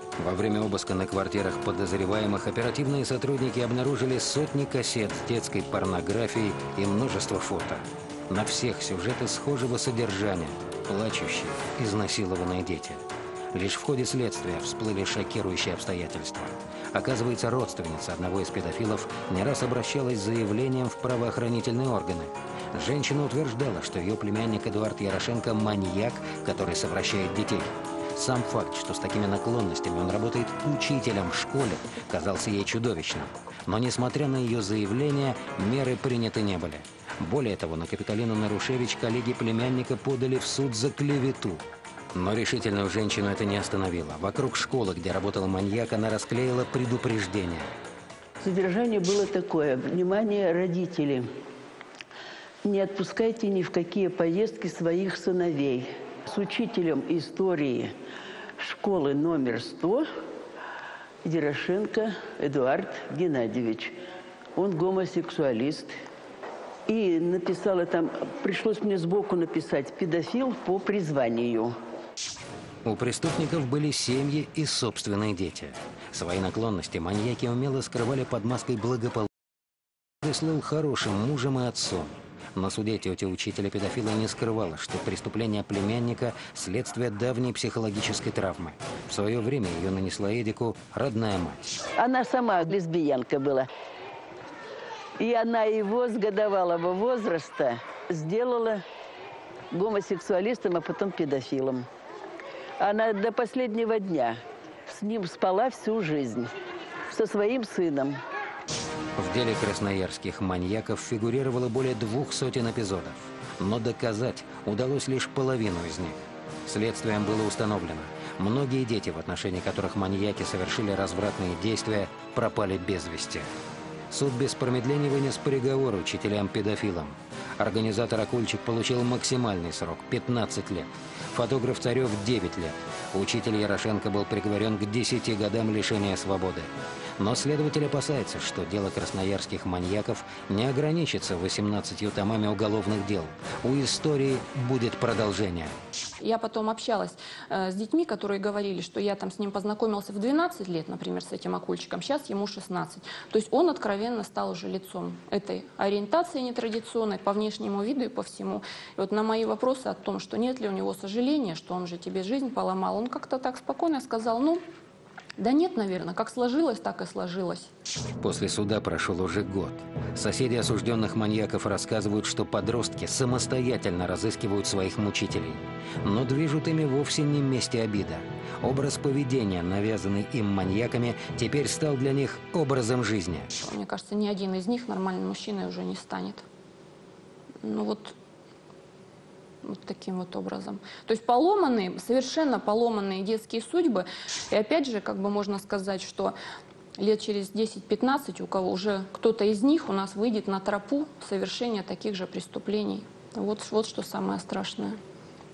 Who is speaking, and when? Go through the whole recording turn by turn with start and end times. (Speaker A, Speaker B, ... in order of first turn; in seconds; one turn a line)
Speaker A: 0.2-47.7
Speaker B: 48.4-51.3
Speaker B: 52.6-58.0
Speaker B: 58.6-60.1
Speaker B: 61.2-64.0
Speaker B: 64.6-65.9
Speaker B: 66.9-71.7
Speaker A: 72.8-79.3
Speaker A: 80.2-91.7
Speaker B: 92.0-93.7
Speaker B: 95.2-98.8
Speaker B: 99.7-101.9
Speaker B: 102.8-106.5
Speaker B: 107.1-108.2
Speaker A: 109.2-123.5
Speaker A: 124.1-145.8
Speaker C: 146.2-164.6
Speaker C: 165.4-167.7
Speaker A: 168.2-183.5
Speaker C: 183.6-186.4
Speaker C: 187.6-188.2
Speaker C: 189.6-196.3
Speaker C: 197.0-205.0